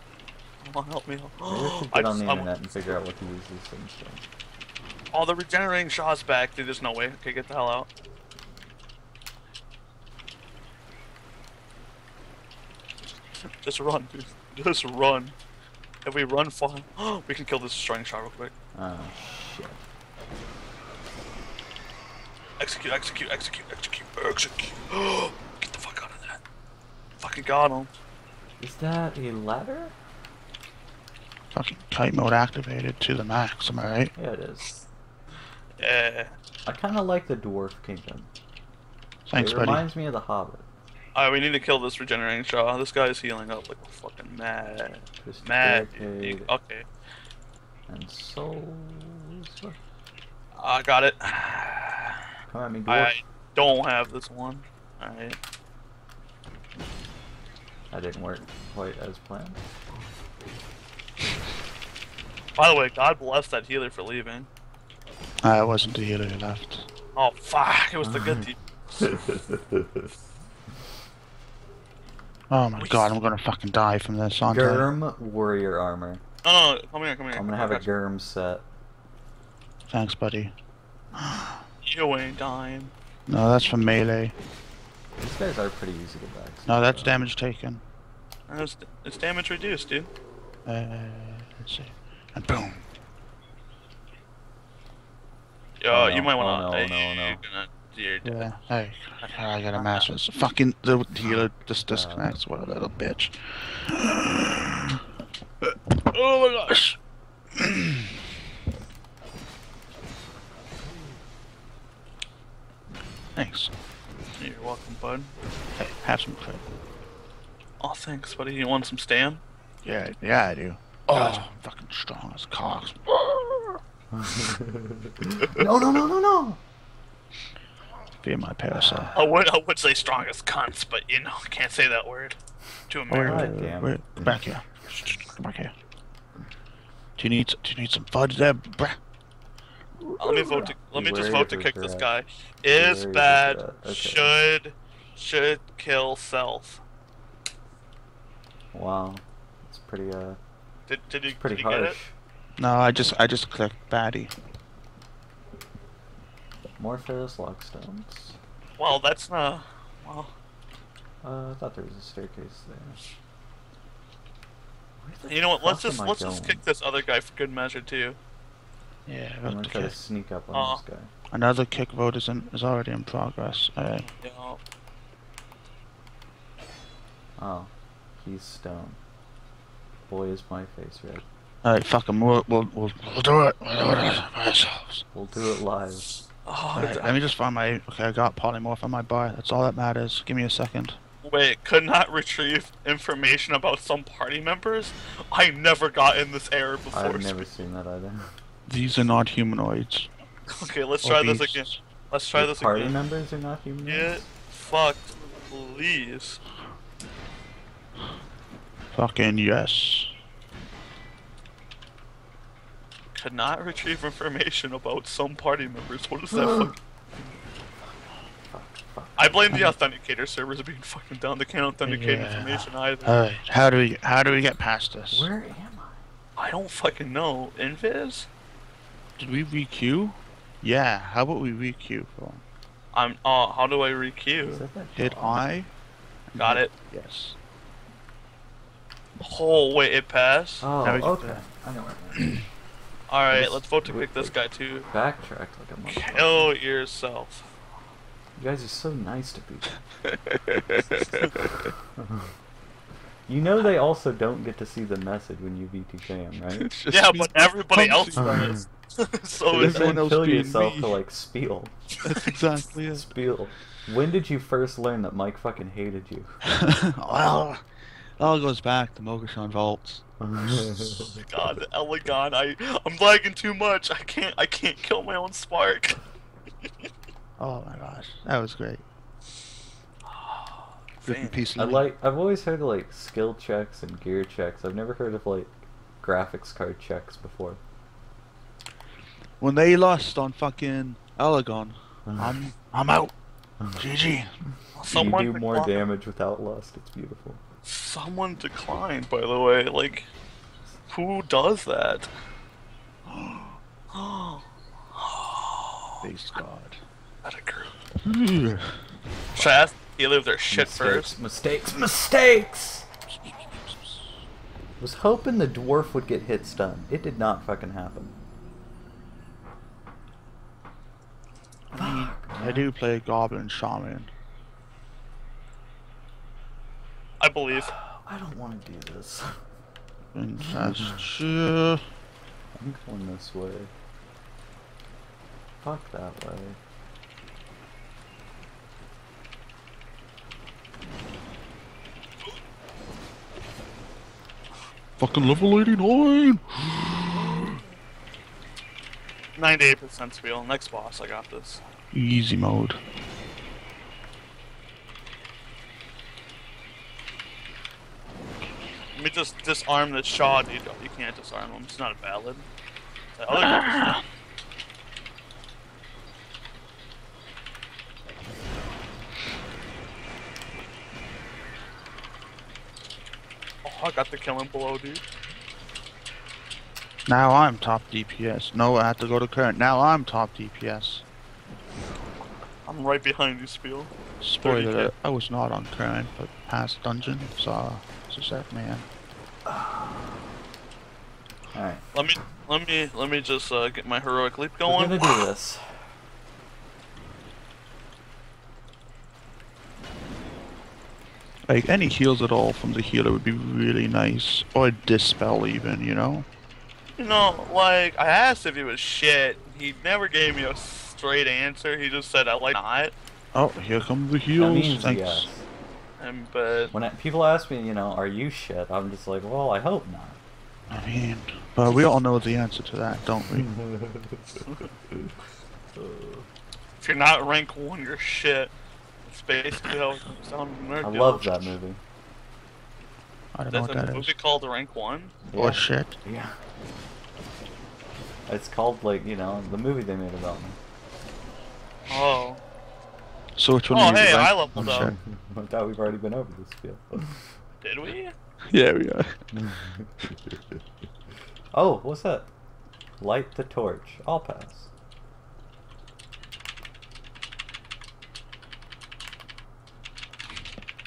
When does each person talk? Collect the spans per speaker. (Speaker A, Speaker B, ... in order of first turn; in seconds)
Speaker A: 0.6-2.7, 5.1-7.9, 13.4-15.3, 16.0-18.5, 22.6-26.4, 27.2-27.9, 35.8-36.4, 41.1-46.9, 50.5-52.2, 52.9-55.4, 62.5-64.5, 67.1-68.6, 72.8-73.2, 76.4-77.9, 81.8-82.9, 88.5-90.1, 95.8-98.5, 99.2-100.1, 114.4-115.3, 117.8-119.4, 121.1-121.5, 129.1-132.4, 132.9-133.6, 140.2-146.8, 150.9-152.0, 158.8-160.3, 165.2-168.2, 170.5-170.8, 174.0-174.6, 186.4-187.2, 191.2-197.4, 200.5-202.9, 203.9-206.4, 213.1-216.8, 219.2-223.2, 226.3-228.3, 232.9-234.6, 236.4-236.7, 239.2-240.7, 243.1-244.9, 245.8-247.5, 256.9-260.0, 271.1-276.0, 280.0-281.5, 294.7-295.8, 297.6-300.1, 300.9-302.1, 303.9-305.9, 307.2-307.8, 309.4-311.1, 327.2-327.7, 349.4-351.6, 358.9-362.5, 363.1-364.0, 373.6-375.0, 382.6-383.9, 384.4-384.9, 391.9-395.3, 407.0-412.9, 416.0-416.7, 426.8-428.5, 429.1-431.6, 433.5-435.2, 441.9-442.4, 443.7-444.9, 447.6-448.1
Speaker B: 1.4-4.2, 18.7-19.8, 28.6-29.9, 34.1-34.9, 36.6-38.3, 39.3-40.6, 45.2-46.5, 47.9-49.8, 52.5-53.2, 57.9-59.6, 68.0-70.1, 74.5-76.2, 77.3-78.6, 85.2-87.2, 95.9-97.4, 101.3-102.4, 124.1-126.6, 128.7-129.3, 133.2-134.4, 140.5-142.1, 142.7-144.3, 148.7-150.4, 151.4-152.1, 156.8-158.4, 161.2-163.0, 165.0-166.6, 169.4-171.1, 177.4-179.0, 180.1-181.2, 185.1-186.1, 196.9-198.3, 202.3-204.3, 216.3-219.7, 225.1-226.0, 234.4-235.5, 240.6-242.3, 243.3-244.4, 244.9-246.5, 248.3-249.7, 251.9-252.3, 253.3-256.7, 258.2-258.6, 259.5-261.8, 262.9-266.8, 270.2-271.2, 281.6-287.6, 292.1-292.4, 294.9-297.4, 310.5-312.9, 314.8-318.1, 321.7-322.7, 327.5-329.4, 330.4-331.1, 332.5-333.7, 335.6-336.6, 389.5-389.9, 391.5-391.8, 394.6-395.9, 414.4-415.4, 416.7-420.2, 423.3-425.1, 425.7-426.3, 430.8-431.8, 435.3-436.4, 438.3-440.6, 444.5-447.4, 449.3-450.4, 451.5-452.3, 453.0-454.7
Speaker C: 31.5-34.1, 39.3-39.9, 65.4-66.9, 72.5-74.9, 79.9-80.5, 81.1-81.6, 83.3-84.3, 86.7-87.8, 90.6-92.8, 98.2-105.0, 105.6-107.0, 107.5-108.1, 113.3-113.7, 115.8-116.6, 119.8-123.8, 128.2-129.1, 133.1-135.7, 137.2-139.0, 140.0-140.7, 152.6-154.3, 169.1-169.9, 171.3-174.1, 181.6-185.0, 186.7-191.0, 198.7-200.1, 201.0-201.8, 208.9-210.1, 221.8-225.3, 229.2-232.4, 234.9-235.7, 236.3-237.3, 240.8-241.4, 242.1-242.4, 250.0-251.7, 256.6-258.6, 259.5-261.0, 262.0-263.1, 266.4-267.6, 268.2-270.0, 277.4-278.8, 281.0-281.9, 289.4-293.1, 293.7-294.3, 303.1-303.5, 306.0-306.8, 308.0-308.8, 313.1-314.1, 321.7-324.1, 330.1-331.9, 345.0-346.7, 351.9-352.8, 363.3-364.0, 377.1-381.0, 384.2-388.9, 401.5-406.2, 413.3-415.3, 420.7-423.5, 433.3-434.1, 435.3-435.9, 443.4-444.9, 448.5-449.2